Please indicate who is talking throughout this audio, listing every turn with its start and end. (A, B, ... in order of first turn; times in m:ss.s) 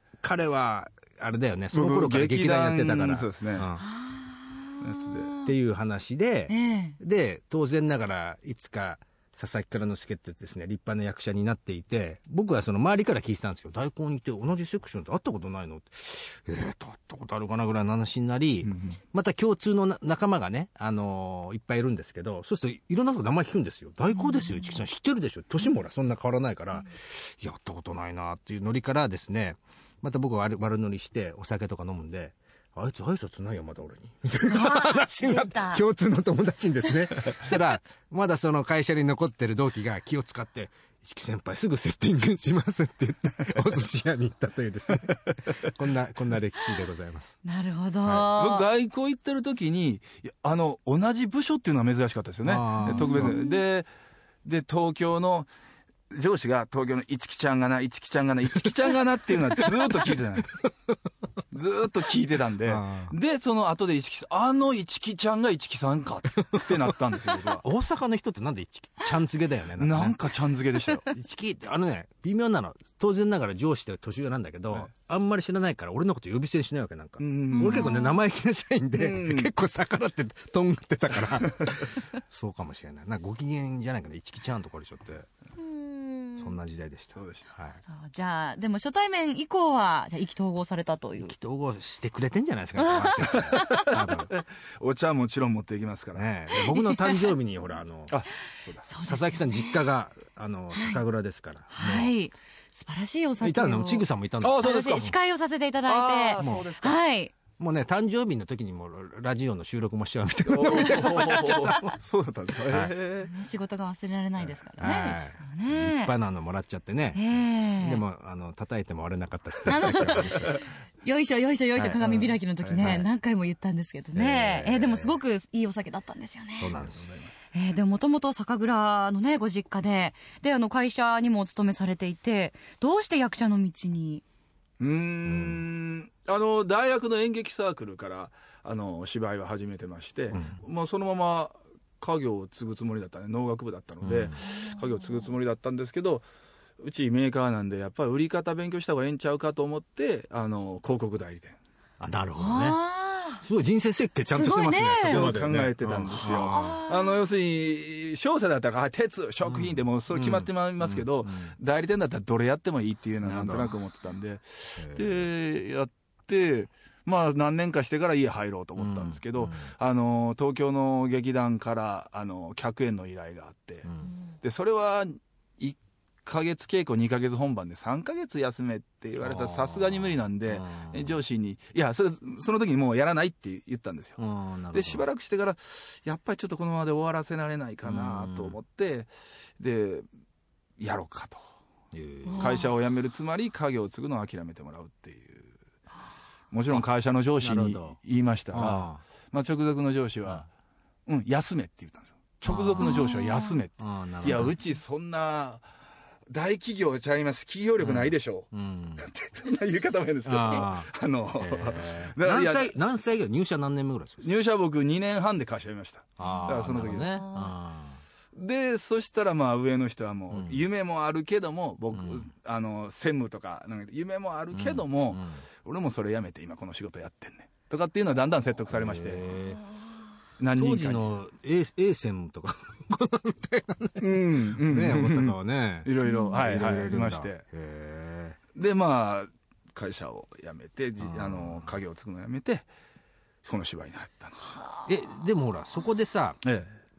0:00.2-0:03.8 A
0:01.7-0:03.7 B
0:03.8-0:05.5 C
0:04.8-0:05.3 B
0:05.4-0:47.4 A
0:06.5-0:07.0 C
0:18.6-0:19.0 B
0:24.1-0:24.7 C
0:34.4-0:35.8 C
0:47.4-0:48.7 C
0:48.2-0:53.9 B
0:52.4-0:53.4 A
0:52.8-0:53.6 C
0:54.4-0:55.5 B
0:56.1-1:00.6 B
1:01.5-1:07.6 B
1:02.7-1:03.2 A
1:06.5-1:10.2 A
1:09.8-1:11.1 B
1:11.1-1:25.3 A
1:17.2-1:17.9 B
1:17.5-1:18.1 C
1:19.0-1:19.5 B
1:25.6-1:26.5 C
1:26.4-1:27.8 A
1:27.1-1:27.5 B
1:27.9-1:31.3 C
1:31.2-1:34.3 A
1:32.8-1:33.9 C
1:33.3-1:36.4 B
1:36.1-1:38.2 A
1:36.8-1:37.2 C
1:38.1-1:38.9 B
1:38.8-1:39.8 C
1:39.0-1:42.1 A
1:40.7-1:41.0 C
1:41.7-1:44.1 C
1:43.4-1:45.1 A
1:44.4-1:45.1 B
1:44.6-1:47.3 C
1:45.9-1:47.0 B
1:46.4-1:46.7 A
1:47.6-1:52.0 A
1:50.4-1:53.3 B
1:50.8-1:51.2 C
1:52.7-1:52.9 A
1:53.2-1:56.1 C
1:54.8-1:57.2 A
1:57.1-1:58.0 C
1:57.8-2:00.6 A
1:59.6-2:06.7 C
2:01.8-2:03.1 A
2:04.1-2:05.2 A
2:06.6-2:07.0 A
2:06.8-2:07.4 B
2:07.5-2:14.2 C
2:14.8-2:26.2 B
2:15.2-2:15.6 A
2:20.3-2:20.6 A
2:24.0-2:24.4 A
2:24.5-2:24.8 C
2:26.8-2:31.6 B
2:32.0-2:32.8 A
2:32.4-2:33.4 C
2:33.4-2:36.8 A
2:34.3-2:35.3 C
2:35.0-2:53.9 B
2:36.3-2:37.2 C
2:39.4-2:41.5 A
2:43.2-2:43.7 A
2:44.8-2:45.3 A
2:48.8-2:49.7 A
2:53.9-2:54.1 A
2:54.4-3:04.2 B
2:59.2-3:01.2 A
3:04.2-3:05.0 A
3:04.7-3:10.1 B
3:07.8-3:08.6 A
3:10.8-3:11.4 B
3:11.9-3:12.6 A
3:12.2-3:12.7 C
3:12.4-3:15.5 B
3:16.5-3:20.4 B
3:17.4-3:18.0 A
3:18.5-3:19.0 A
3:21.1-3:25.6 B
3:22.4-3:23.2 A
3:22.8-3:23.6 C
3:23.8-3:24.6 A
3:24.2-3:24.5 C
3:26.3-3:32.8 B
3:27.8-3:29.1 A
3:30.2-3:34.3 A
3:34.2-3:37.3 B
3:36.2-3:38.0 A
3:36.2-3:37.5 C
3:38.3-3:49.4 B
3:40.3-3:40.6 A
3:41.9-3:42.3 A
3:44.5-3:45.4 A
3:48.7-3:49.6 A
3:50.4-3:51.1 B
3:50.5-3:58.4 A
3:54.0-3:57.4 B
3:56.1-3:56.4 C
3:58.5-4:02.7 B
4:01.0-4:01.8 A
4:03.4-4:04.6 B
4:04.9-4:06.4 A
4:06.4-4:06.7 B